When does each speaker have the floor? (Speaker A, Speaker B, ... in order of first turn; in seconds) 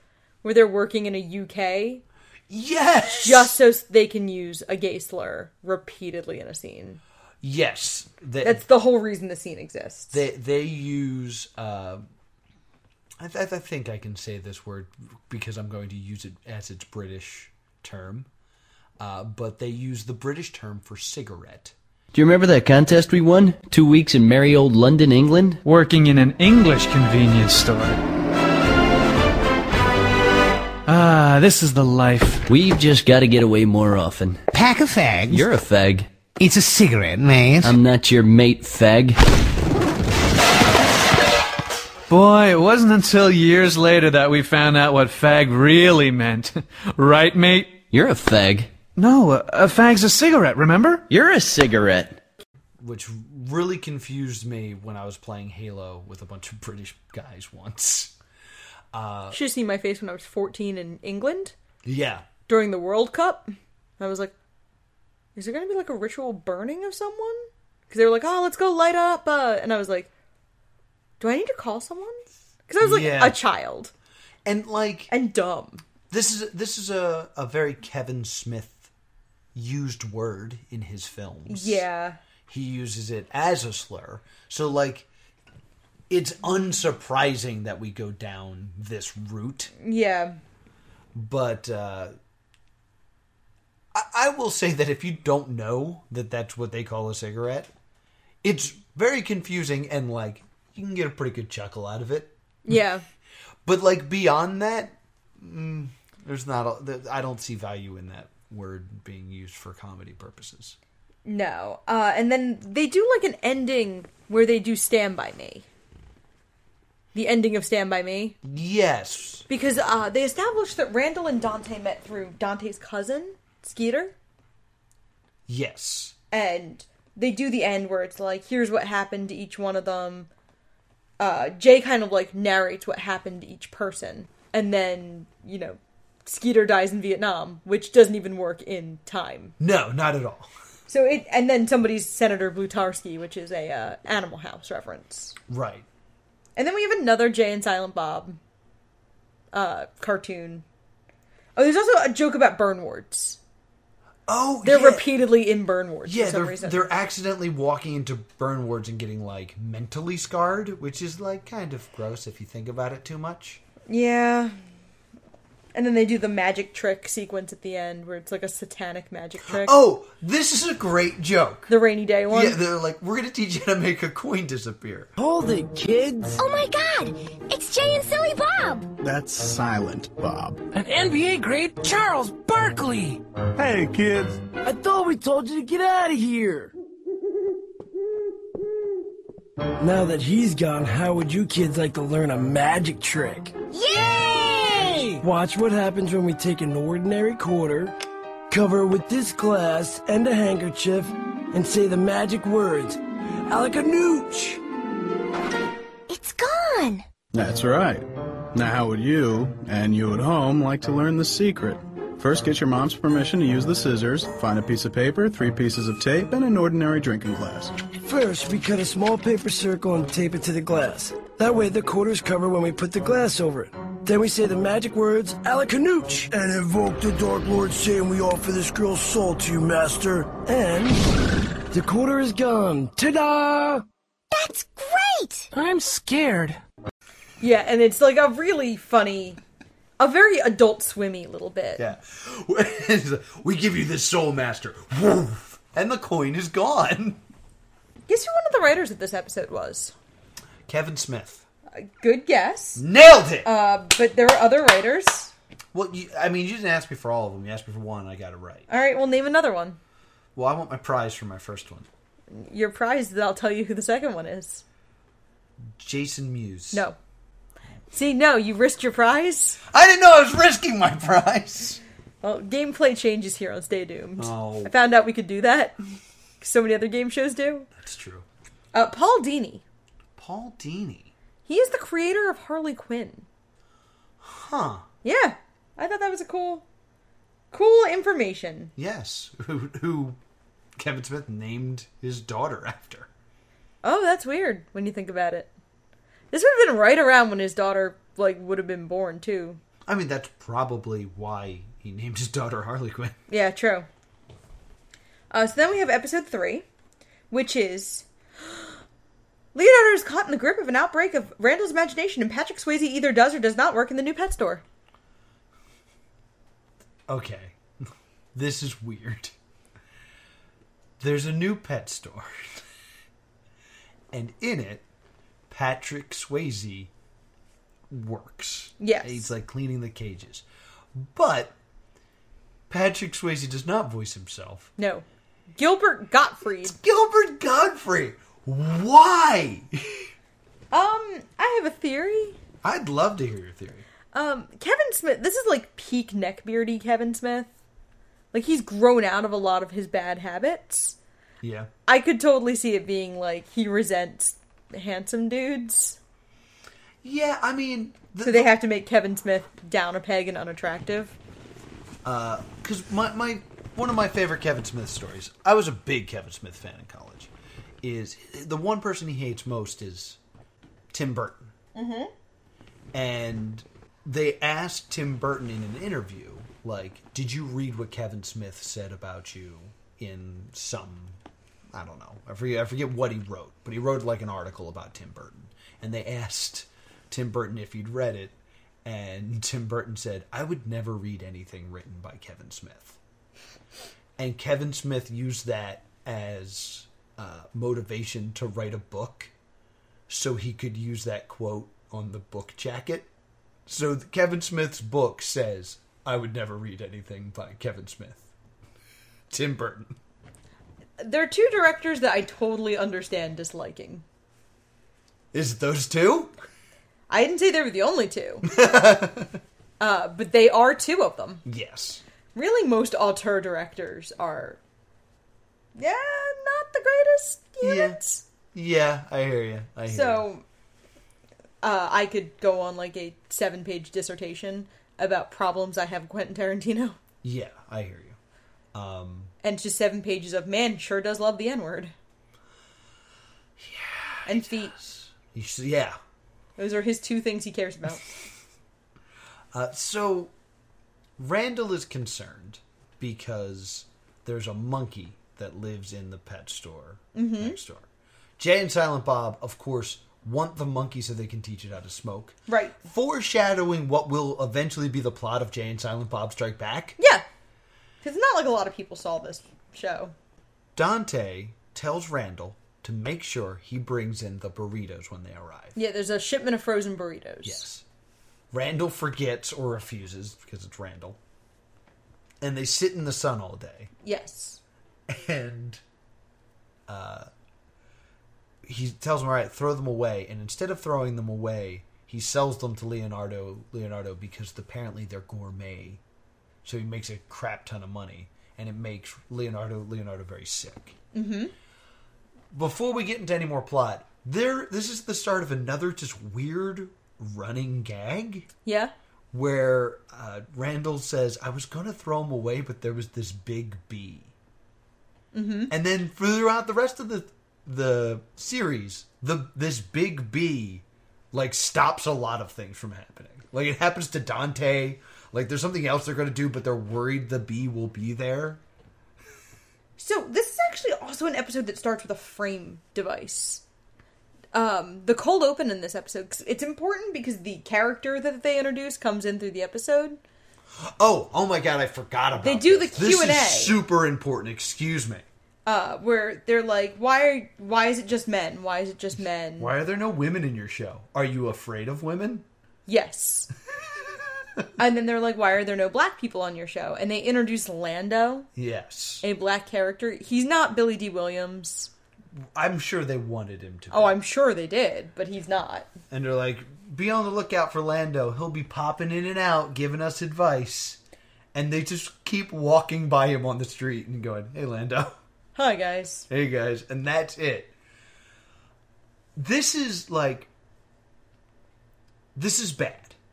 Speaker A: 0.4-2.0, 3.1-7.0, 8.4-10.2, 59.3-61.5, 62.5-64.3, 65.3-70.1, 71.2-73.9, 75.1-75.8, 81.5-82.2, 89.8-90.4, 102.7-103.0, 111.2-115.7, 117.1-118.4, 119.5-124.2, 126.3-130.3, 131.2-139.5, 140.9-145.3, 146.6-148.4, 149.5-150.6, 151.6-153.4, 154.6-156.9, 163.9-164.6, 165.7-169.8, 171.7-172.6, 237.4-239.4, 240.0-241.9, 248.1-249.9, 251.7-252.8, 253.4-255.3, 258.7-259.8, 262.3-264.6, 266.7-267.0, 267.9-269.6, 272.2-277.7, 278.7-279.6, 281.5-283.3, 285.0-286.6, 287.5-288.7, 293.8-295.5, 296.3-299.6, 303.3-303.9, 305.3-306.7, 307.3-308.7, 309.6-314.6, 328.8-329.3, 334.8-336.8, 340.7-342.4, 344.1-347.5, 348.3-351.0, 351.9-356.0, 358.2-361.1, 371.8-372.1, 411.0-414.0, 417.1-418.5, 419.8-421.4, 422.4-424.6, 425.8-428.2, 429.9-430.4, 431.6-437.0, 439.4-441.9, 444.3-444.7, 446.6-448.1, 457.1-457.6, 462.5-462.8, 467.0-467.2, 468.0-470.1, 475.8-477.7, 484.0-484.6, 501.1-501.5, 508.6-508.9, 515.3-515.7, 530.0-533.6, 534.5-540.2, 542.4-543.8, 545.7-549.7, 552.9-553.5, 554.8-558.5, 559.2-561.9, 563.9-565.9, 575.6-576.3
Speaker B: 2.5-3.6, 7.4-8.6, 10.1-12.0, 13.2-18.3, 19.0-21.7, 52.8-58.1, 58.9-59.4, 61.8-62.3, 72.8-73.4, 74.5-75.1, 76.1-78.9, 79.5-81.8, 82.5-85.1, 86.1-89.7, 91.1-92.1, 93.9-97.7, 98.4-102.3, 103.7-110.8, 118.4-119.5, 125.5-126.2, 139.6-140.5, 145.5-145.9, 154.3-155.1, 156.1-163.6, 169.5-171.7, 172.3-175.1, 241.8-247.2, 250.7-251.4, 252.8-253.5, 255.7-258.7, 260.4-261.9, 265.8-266.9, 269.7-271.8, 274.2-274.7, 277.8-278.3, 280.2-281.1, 284.2-284.9, 288.8-290.2, 290.8-293.1, 299.9-303.2, 317.1-317.6, 318.3-319.3, 321.0-322.6, 324.1-324.9, 325.5-326.9, 327.9-331.6, 332.7-334.7, 336.6-340.1, 342.6-343.9, 351.4-351.7, 357.0-358.5, 362.0-367.3, 367.8-370.2, 370.9-371.5, 372.9-381.2, 381.7-393.0, 394.2-399.3, 400.1-403.1, 403.7-408.3, 409.3-409.9, 415.3-416.4, 418.4-419.4, 421.4-422.0, 427.6-428.0, 428.5-430.3, 437.2-438.2, 438.7-439.3, 443.6-446.0, 449.5-450.3, 451.2-457.9, 458.4-467.0, 470.8-475.8, 477.4-477.8, 478.5-481.2, 482.4-483.9, 485.1-485.8, 486.9-487.3, 488.6-496.0, 496.6-501.0, 502.5-508.5, 509.3-514.3, 515.7-528.6, 540.8-545.2, 549.6-552.5, 558.6-559.2, 562.5-564.1, 566.1-571.0, 571.5-575.2, 576.3-577.7, 579.4-580.5, 582.4-583.2
Speaker C: 22.1-25.6, 32.5-34.4, 35.3-36.1, 37.6-39.2, 47.9-48.7, 51.1-52.2
Speaker D: 25.6-28.0, 30.9-32.5, 42.1-47.8, 49.0-51.0
Speaker E: 34.5-35.5, 36.4-37.8
Speaker F: 175.2-176.4, 180.7-183.2, 184.6-186.7, 189.8-193.6, 195.1-197.9, 198.5-204.6, 218.0-231.0, 231.7-233.8
Speaker G: 176.4-178.9, 193.7-195.1, 206.1-207.1, 234.3-235.5
Speaker H: 179.0-180.6, 183.6-184.4, 207.3-217.8